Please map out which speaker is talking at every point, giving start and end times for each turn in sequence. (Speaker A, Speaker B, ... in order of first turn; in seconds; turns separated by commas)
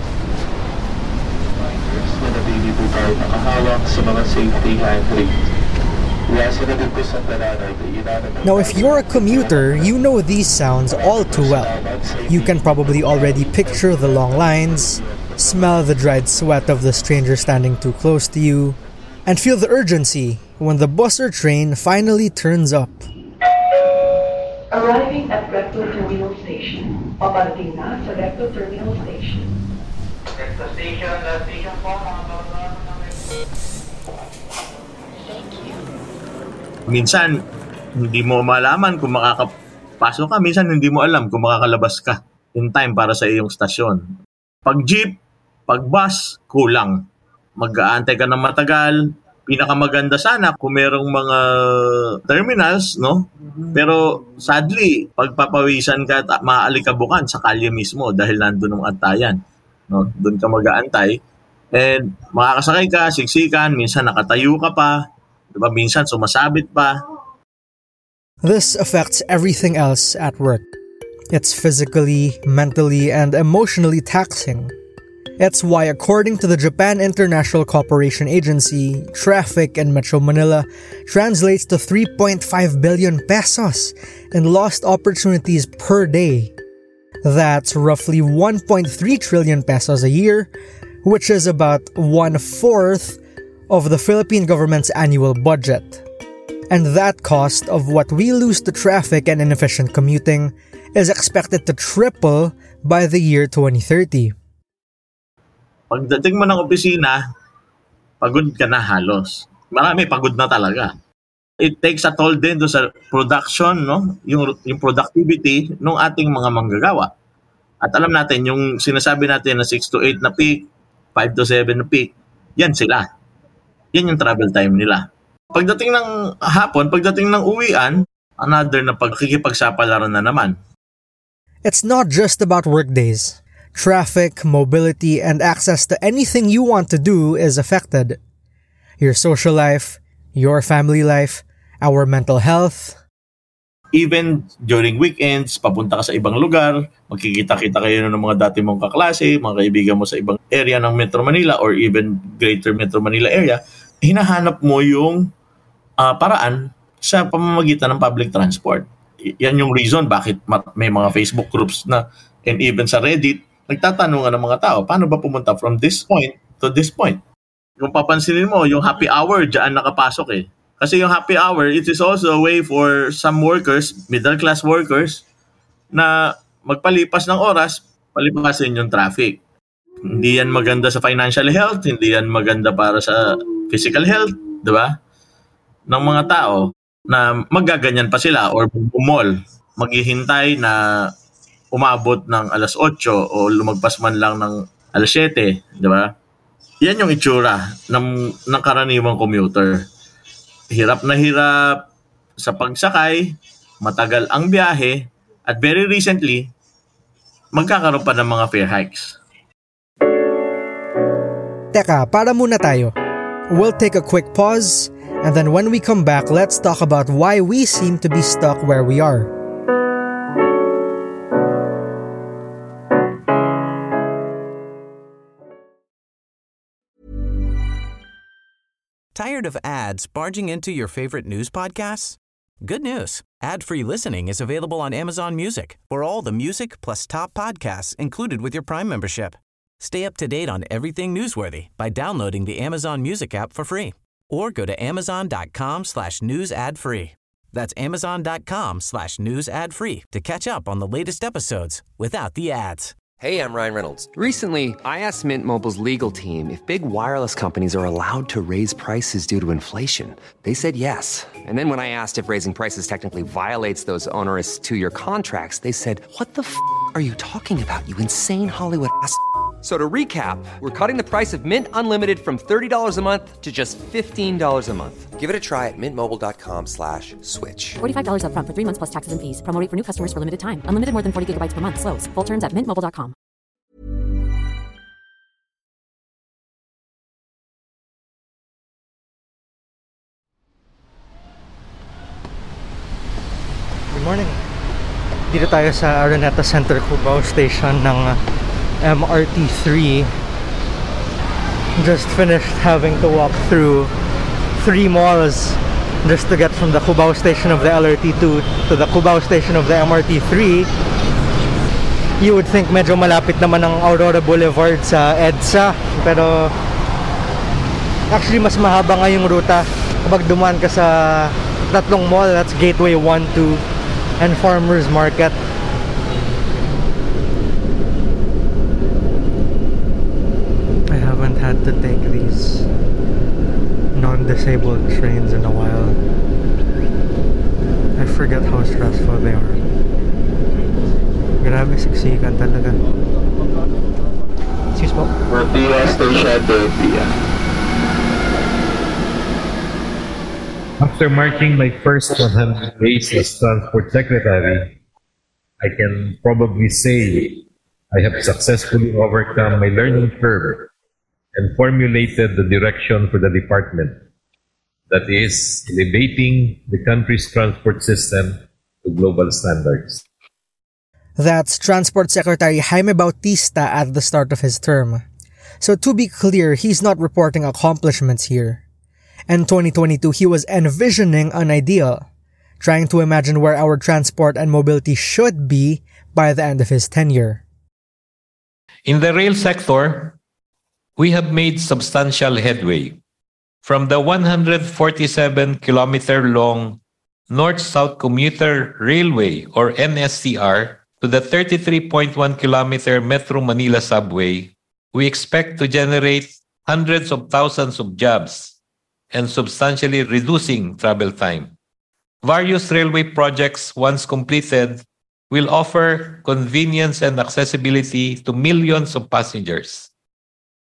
Speaker A: 1.7-5.3, Speaker A: 6.2-9.6, Speaker B: 8.4-11.7, Speaker A: 10.9-12.6, Speaker B: 12.3-23.1, Speaker C: 24.7-29.6, Speaker C: 35.2-35.8, Speaker D: 36.9-37.3, Speaker D: 38.0-44.0, Speaker D: 44.6-45.2, Speaker D: 45.7-47.0, Speaker D: 47.6-48.9, Speaker D: 49.5-59.4, Speaker D: 59.9-61.2, Speaker D: 61.7-65.0, Speaker D: 65.5-67.0, Speaker B: 68.4-70.7, Speaker B: 71.3-74.8, Speaker B: 75.4-86.5, Speaker B: 87.2-90.5, Speaker B: 91.0-96.0, Speaker B: 96.7-104.3, Speaker D: 105.9-107.2, Speaker D: 108.2-110.9, Speaker D: 111.6-117.1, Speaker D: 117.8-123.0, Speaker D: 123.9-130.6, Speaker B: 131.6-138.2, Speaker B: 139.0-143.0, Speaker D: 144.0-155.2, Speaker D: 156.0-167.2, Speaker D: 167.8-175.2, Speaker D: 175.9-179.4, Speaker D: 180.1-184.9, Speaker D: 185.9-191.1, Speaker D: 191.7-196.1, Speaker D: 196.8-199.8, Speaker D: 200.7-201.8, Speaker D: 202.4-206.5, Speaker D: 207.5-209.2, Speaker B: 211.7-212.9, Speaker B: 213.5-219.3, Speaker E: 229.2-252.9, Speaker F: 253.2-277.8, Speaker G: 277.8-283.1, Speaker B: 293.9-294.4, Speaker B: 295.3-298.1, Speaker B: 298.8-300.0, Speaker B: 301.8-303.9, Speaker B: 304.6-305.5, Speaker B: 306.1-310.6, Speaker B: 312.2-316.4, Speaker B: 318.1-320.9, Speaker B: 321.7-323.6, Speaker B: 324.2-325.3, Speaker B: 330.9-332.6, Speaker B: 333.9-335.9, Speaker B: 338.0-339.6, Speaker B: 341.4-342.8, Speaker B: 344.8-345.1, Speaker A: 345.3-347.1, Speaker H: 350.8-354.8, Speaker H: 355.6-360.7, Speaker H: 361.4-364.0, Speaker H: 364.9-370.0, Speaker B: 371.2-375.0, Speaker B: 375.6-378.6, Speaker B: 379.3-382.1, Speaker B: 382.6-387.4, Speaker I: 388.9-390.1, Speaker I: 391.0-393.0, Speaker I: 393.6-408.5, Speaker I: 409.1-411.5, Speaker I: 412.2-419.9